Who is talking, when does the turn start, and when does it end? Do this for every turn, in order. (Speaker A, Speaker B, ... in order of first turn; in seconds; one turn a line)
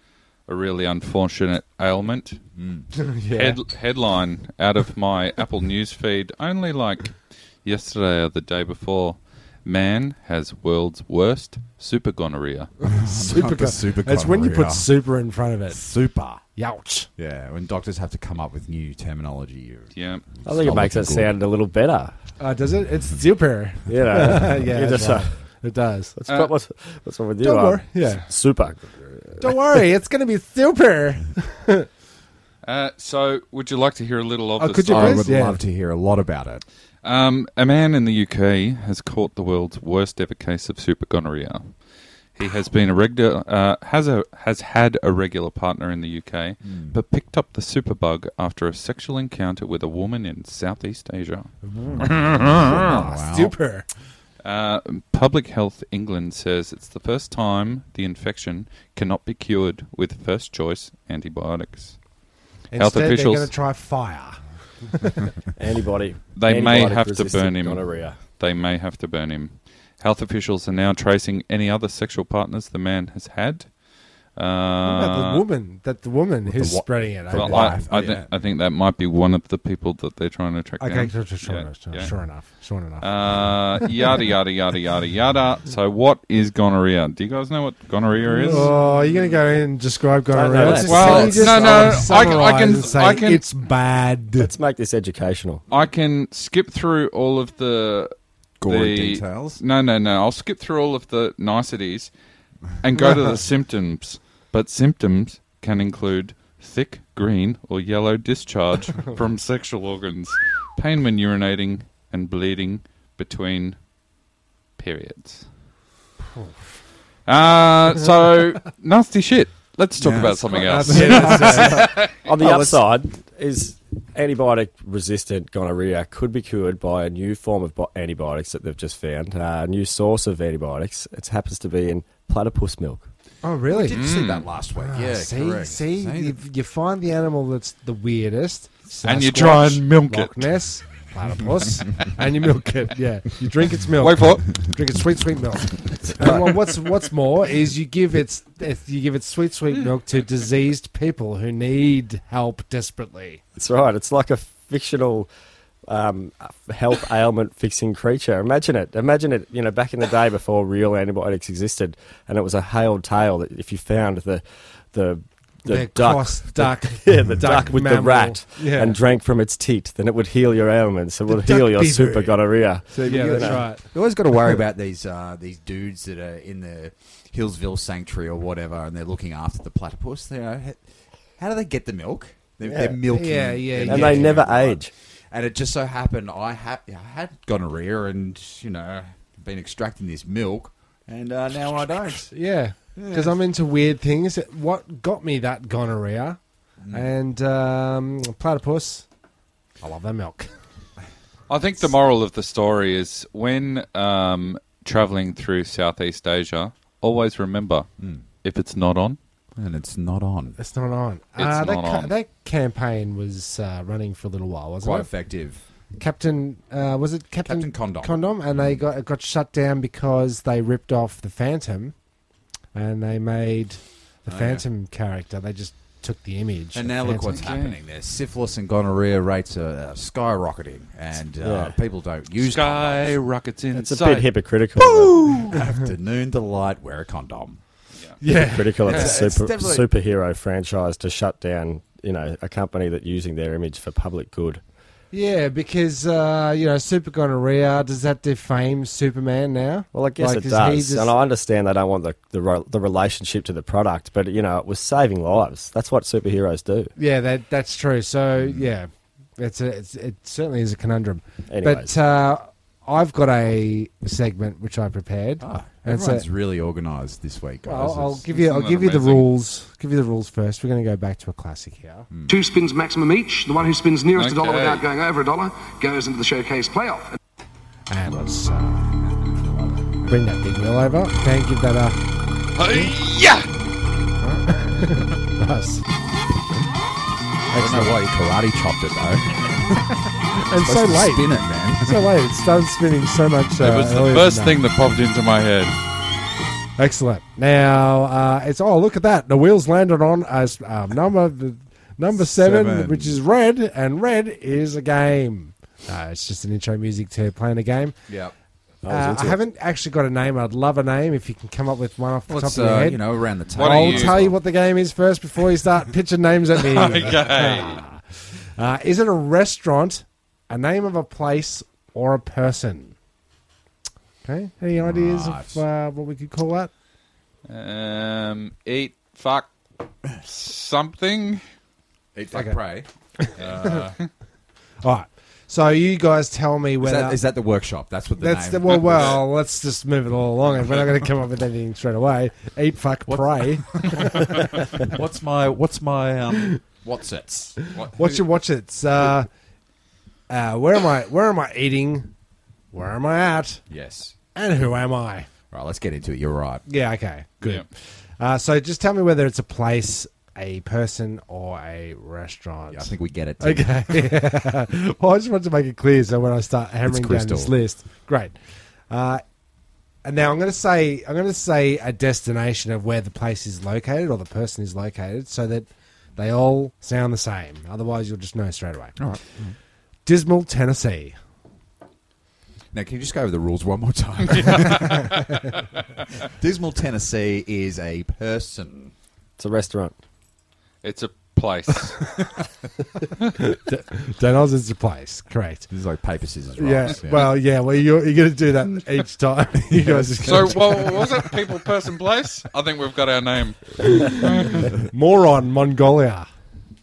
Speaker A: 0.5-2.4
Speaker B: 2.6-2.9
Speaker C: 3.0-3.6
Speaker A: 3.3-12.7
Speaker B: 12.8-14.9
Speaker C: 13.0-15.8
Speaker B: 15.7-16.4
Speaker C: 16.4-17.1
Speaker B: 17.2-21.4
Speaker A: 19.9-20.2
Speaker D: 20.4-22.1
Speaker C: 22.4-26.1
Speaker D: 23.9-25.3
Speaker D: 26.1-29.6
Speaker A: 26.3-26.5
Speaker C: 27.4-28.3
Speaker C: 29.4-31.9
Speaker A: 32.6-35.3
Speaker C: 34.6-35.6
Speaker B: 34.9-36.6
Speaker A: 37.0-41.8
Speaker A: 42.4-53.0
Speaker B: 46.6-47.0
Speaker C: 51.6-53.9
Speaker B: 52.1-53.6
Speaker A: 54.4-62.0
Speaker C: 62.7-65.2
Speaker A: 62.8-63.5
Speaker D: 65.6-68.2
Speaker A: 66.3-75.4
Speaker C: 74.8-77.8
Speaker B: 76.5-78.4
Speaker A: 77.3-82.2
Speaker C: 80.8-83.8
Speaker A: 83.0-88.7
Speaker C: 88.3-94.5
Speaker D: 90.3-91.7
Speaker B: 90.6-92.2
Speaker A: 90.9-93.4
Speaker D: 94.4-95.6
Speaker A: 95.7-98.1
Speaker B: 98.6-99.6
Speaker A: 98.7-102.1
Speaker A: 102.8-113.8
Speaker A: 114.8-115.5
Speaker A: 117.3-122.2
Speaker B: 120.0-122.9
Speaker C: 120.7-121.8
Speaker D: 122.2-133.1
Speaker C: 133.4-134.1
Speaker B: 133.7-136.4
Speaker A: 133.9-134.5
Speaker C: 134.8-153.4
Speaker A: 139.0-140.5
Speaker A: 144.0-144.5
Speaker D: 153.6-155.3
Speaker D: 155.9-173.7
Speaker C: 165.7-169.0
Speaker C: 171.3-172.4
Speaker B: 172.9-192.3
Speaker C: 173.0-173.8
Speaker D: 182.7-183.0
Speaker C: 183.1-184.4
Speaker D: 183.9-184.9
Speaker C: 192.3-196.4
Speaker B: 193.0-193.4
Speaker B: 196.8-197.1
Speaker C: 196.9-199.1
Speaker C: 199.8-200.5
Speaker A: 201.5-207.9
Speaker B: 208.0-208.2
Speaker A: 208.4-209.2
Speaker B: 209.6-210.6
Speaker C: 210.6-215.1
Speaker A: 211.4-212.1
Speaker B: 214.8-215.6
Speaker C: 216.0-221.9
Speaker B: 217.4-218.8
Speaker C: 222.7-227.4
Speaker B: 224.3-224.7
Speaker B: 226.7-233.2
Speaker A: 227.3-227.8
Speaker D: 231.4-231.8
Speaker A: 232.4-234.3
Speaker D: 233.7-235.5
Speaker B: 234.8-237.6
Speaker C: 238.2-239.2
Speaker D: 238.3-244.6
Speaker B: 238.8-239.9
Speaker C: 245.1-251.1
Speaker D: 249.9-256.9
Speaker C: 257.0-266.3
Speaker B: 258.4-258.7
Speaker D: 261.5-261.9
Speaker B: 265.4-268.2
Speaker C: 267.6-272.1
Speaker A: 268.3-269.3
Speaker B: 272.1-272.4
Speaker E: 272.3-277.2
Speaker A: 274.2-274.9
Speaker C: 277.9-278.9
Speaker C: 280.0-282.0
Speaker A: 282.6-283.5
Speaker C: 284.2-285.8
Speaker C: 287.5-287.9
Speaker B: 287.5-289.9
Speaker C: 290.4-294.6
Speaker B: 290.5-292.2
Speaker A: 293.6-295.8
Speaker C: 296.8-308.0
Speaker B: 302.1-303.2
Speaker B: 308.1-308.4
Speaker D: 308.8-309.4
Speaker C: 308.9-322.9
Speaker B: 312.3-314.4
Speaker A: 313.6-314.2
Speaker A: 316.7-317.8
Speaker C: 324.2-326.7
Speaker B: 324.8-325.6
Speaker A: 327.5-329.5
Speaker A: 330.2-331.4
Speaker B: 332.1-334.0
Speaker C: 332.3-332.6
Speaker C: 333.2-333.8
Speaker C: 334.8-337.2
Speaker B: 336.8-339.2
Speaker C: 338.2-344.3
Speaker B: 343.1-348.3
Speaker C: 347.9-349.3
Speaker C: 350.3-352.1
Speaker C: 352.7-353.6
Speaker B: 353.7-354.1
Speaker C: 354.4-355.3
Speaker B: 355.5-356.6
Speaker C: 356.7-357.7
Speaker C: 358.2-368.4
Speaker B: 362.7-364.1
Speaker B: 366.9-367.6
Speaker C: 368.9-369.2
Speaker C: 370.0-379.0
Speaker B: 379.0-379.6
Speaker C: 380.1-381.2
Speaker B: 382.7-385.1
Speaker A: 384.4-385.2
Speaker B: 386.2-388.9
Speaker D: 389.4-389.9
Speaker A: 390.8-392.1
Speaker C: 393.4-395.7
Speaker B: 395.7-397.4
Speaker C: 396.6-401.0
Speaker A: 400.2-404.6
Speaker C: 403.8-404.2
Speaker C: 404.8-406.3